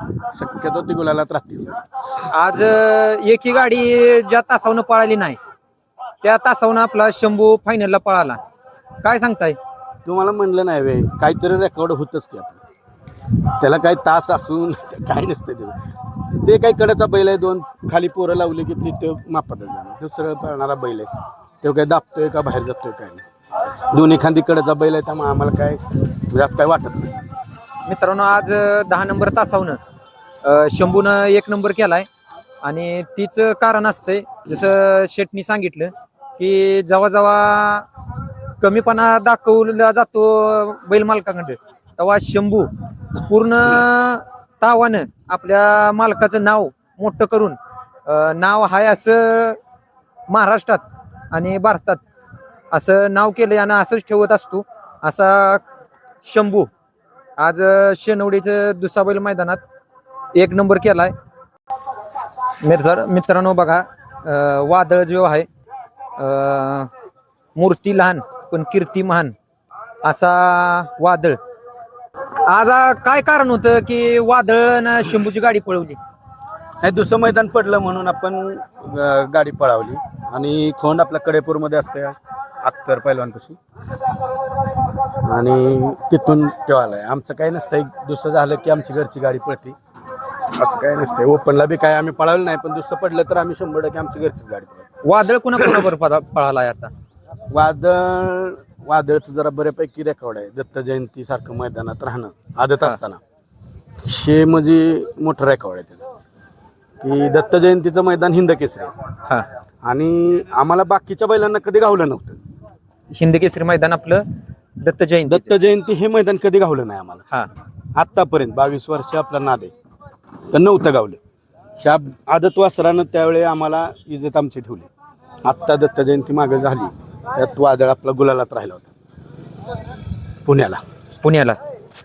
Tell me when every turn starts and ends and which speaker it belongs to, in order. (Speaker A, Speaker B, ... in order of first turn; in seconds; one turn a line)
Speaker A: 0.3-1.8
Speaker B: 2.3-5.4
Speaker B: 6.2-8.4
Speaker B: 9.0-9.6
Speaker A: 10.1-12.6
Speaker A: 13.6-15.8
Speaker A: 16.4-21.1
Speaker A: 21.6-23.2
Speaker A: 23.9-27.2
Speaker B: 27.9-29.8
Speaker B: 30.4-32.1
Speaker B: 32.6-37.9
Speaker B: 38.6-49.6
Speaker B: 50.3-52.0
Speaker B: 52.7-55.6
Speaker B: 56.2-56.7
Speaker B: 57.4-59.6
Speaker B: 60.4-61.1
Speaker B: 62.6-65.5
Speaker B: 66.2-66.9
Speaker B: 67.6-69.3
Speaker B: 70.0-71.4
Speaker B: 72.5-76.0
Speaker A: 76.8-83.6
Speaker A: 85.2-89.8
Speaker A: 90.5-94.9
Speaker B: 95.0-96.9
Speaker A: 95.6-95.8
Speaker A: 97.5-103.2
Speaker A: 104.0-106.1
Speaker A: 107.0-108.9
Speaker A: 109.8-112.4
Speaker B: 113.1-114.2
Speaker B: 114.8-115.5
Speaker A: 115.3-117.2
Speaker A: 118.0-119.7
Speaker A: 120.5-121.2
Speaker A: 121.8-124.9
Speaker A: 125.4-128.9
Speaker A: 130.4-130.8
Speaker B: 131.2-131.6